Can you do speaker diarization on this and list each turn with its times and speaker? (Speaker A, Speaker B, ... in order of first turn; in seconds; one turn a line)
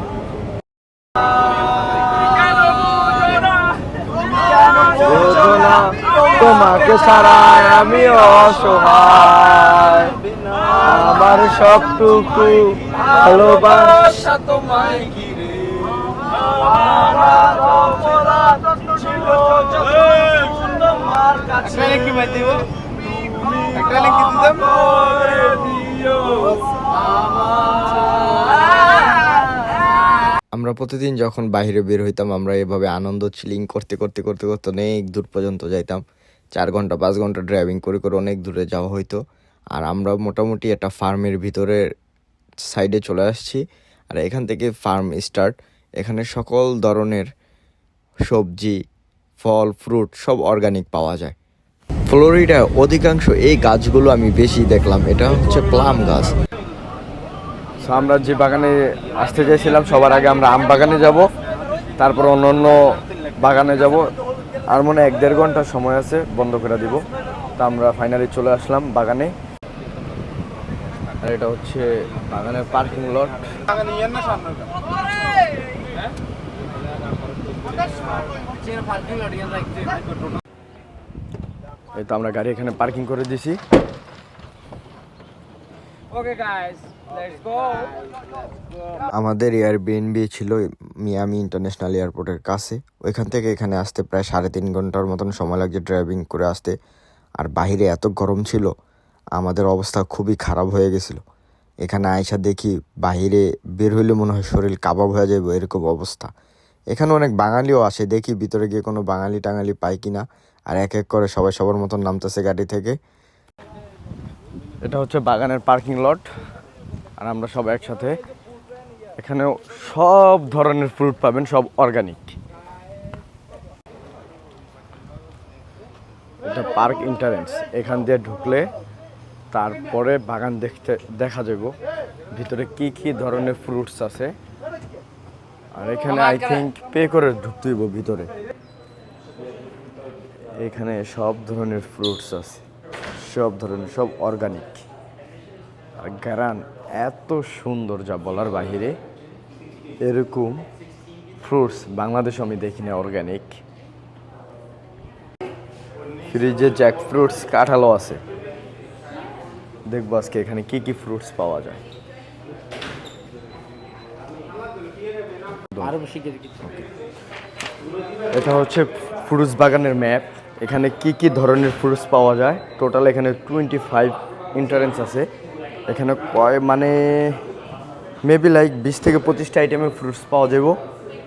Speaker A: 4.9-10.0
Speaker B: 4.9-9.1
Speaker B: 10.8-14.1
Speaker A: 10.8-15.1
Speaker A: 16.8-22.6
Speaker B: 18.5-21.9
Speaker A: 23.1-26.6
Speaker B: 30.5-36.0
Speaker B: 36.5-39.2
Speaker B: 39.7-41.8
Speaker B: 42.7-47.3
Speaker B: 48.3-48.8
Speaker B: 49.4-51.3
Speaker B: 52.1-56.4
Speaker A: 57.8-61.3
Speaker A: 62.0-62.8
Speaker A: 63.4-64.1
Speaker A: 64.7-67.1
Speaker A: 67.6-69.3
Speaker A: 71.2-73.5
Speaker A: 82.0-83.5
Speaker C: 86.2-87.9
Speaker B: 89.1-96.7
Speaker B: 97.4-98.7
Speaker B: 99.3-101.2
Speaker B: 101.8-106.3
Speaker B: 106.9-112.9
Speaker A: 114.8-116.2
Speaker A: 117.2-118.1
Speaker A: 119.2-122.3
Speaker A: 126.4-128.6
Speaker A: 129.5-131.7
Speaker A: 132.3-134.3
Speaker A: 135.7-138.3
Speaker A: 140.6-142.6
Speaker A: 143.2-144.8
Speaker A: 146.0-148.9
Speaker A: 150.0-150.6
Speaker A: 151.4-153.5
Speaker A: 156.3-158.2
Speaker A: 159.9-161.8
Speaker C: 165.8-166.5
Speaker A: 168.3-175.3
Speaker A: 175.9-177.4
Speaker A: 178.2-180.8